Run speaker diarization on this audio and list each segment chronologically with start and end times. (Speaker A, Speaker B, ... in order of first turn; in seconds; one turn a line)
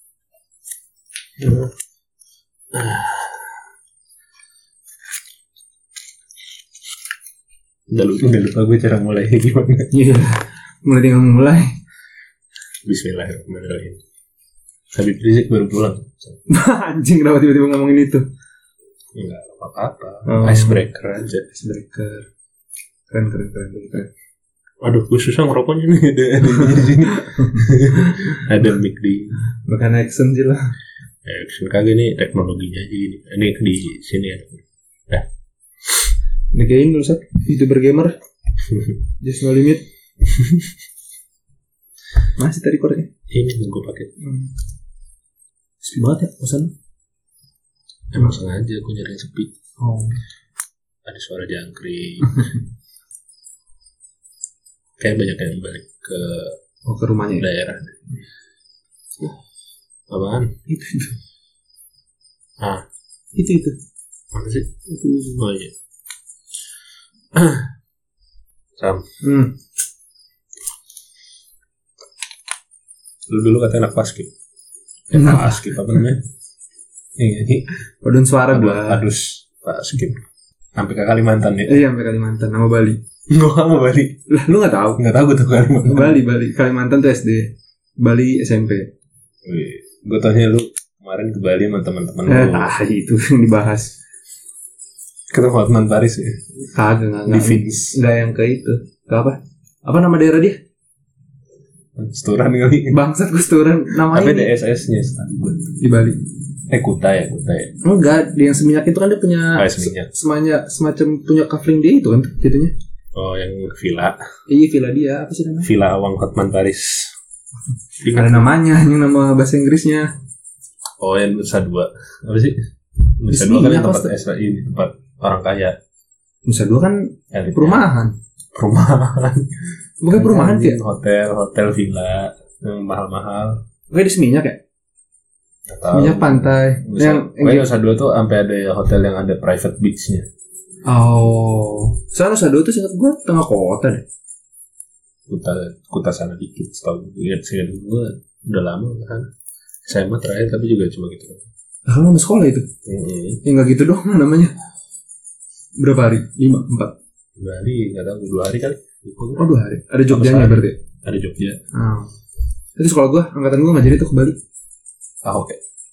Speaker A: 1.4-1.7
Speaker A: 2.7-3.5
Speaker A: 7.9-9.9
Speaker B: 9.9-11.7
Speaker A: 12.8-14.0
Speaker A: 14.9-16.4
Speaker B: 16.5-18.2
Speaker A: 19.1-21.4
Speaker B: 20.2-20.8
Speaker B: 21.4-22.2
Speaker B: 23.1-24.1
Speaker A: 24.8-29.4
Speaker B: 26.4-28.2
Speaker B: 29.6-30.7
Speaker A: 31.2-35.2
Speaker B: 36.5-38.1
Speaker A: 38.7-39.0
Speaker B: 39.2-39.8
Speaker A: 40.3-40.6
Speaker B: 42.4-43.1
Speaker A: 43.3-44.1
Speaker B: 44.2-44.5
Speaker B: 45.8-46.7
Speaker A: 48.1-49.5
Speaker B: 49.8-50.2
Speaker A: 51.0-52.5
Speaker A: 55.0-56.5
Speaker B: 56.9-57.5
Speaker A: 57.4-58.1
Speaker A: 60.1-60.5
Speaker B: 60.7-61.2
Speaker B: 63.3-63.8
Speaker A: 64.3-64.7
Speaker B: 64.9-65.4
Speaker A: 65.3-65.7
Speaker A: 67.3-67.7
Speaker A: 68.8-69.0
Speaker B: 69.2-69.5
Speaker A: 73.3-74.3
Speaker A: 75.1-76.2
Speaker B: 75.2-75.4
Speaker A: 77.2-77.7
Speaker B: 78.0-79.0
Speaker A: 78.5-80.2
Speaker A: 80.8-81.8
Speaker B: 81.7-83.0
Speaker A: 83.3-84.2
Speaker B: 84.3-85.0
Speaker A: 85.0-86.2
Speaker B: 85.8-88.9
Speaker A: 89.4-92.7
Speaker B: 92.3-93.9
Speaker A: 95.3-96.4
Speaker B: 96.7-100.6
Speaker A: 97.3-98.0
Speaker A: 102.0-103.0
Speaker B: 102.9-104.5
Speaker A: 104.1-105.7
Speaker B: 105.8-106.2
Speaker A: 106.7-107.7
Speaker B: 107.8-112.7
Speaker A: 109.5-110.1
Speaker A: 113.1-114.2
Speaker B: 114.5-115.7
Speaker A: 115.6-117.1
Speaker A: 118.0-118.5
Speaker B: 118.0-120.1
Speaker A: 121.0-122.6
Speaker A: 123.2-125.7
Speaker B: 123.3-124.1
Speaker B: 126.5-128.1
Speaker A: 127.3-127.9
Speaker A: 128.5-133.6
Speaker B: 130.0-130.8
Speaker B: 133.9-134.6
Speaker A: 135.7-140.2
Speaker B: 135.9-137.7
Speaker B: 140.8-144.0
Speaker A: 145.3-149.3
Speaker A: 149.9-151.4
Speaker B: 151.9-152.7
Speaker A: 152.8-153.4
Speaker B: 153.4-154.5
Speaker B: 155.8-156.9
Speaker A: 157.4-159.5
Speaker B: 159.4-160.8
Speaker A: 160.1-161.6
Speaker B: 161.7-162.1
Speaker B: 162.8-164.4
Speaker A: 165.2-165.6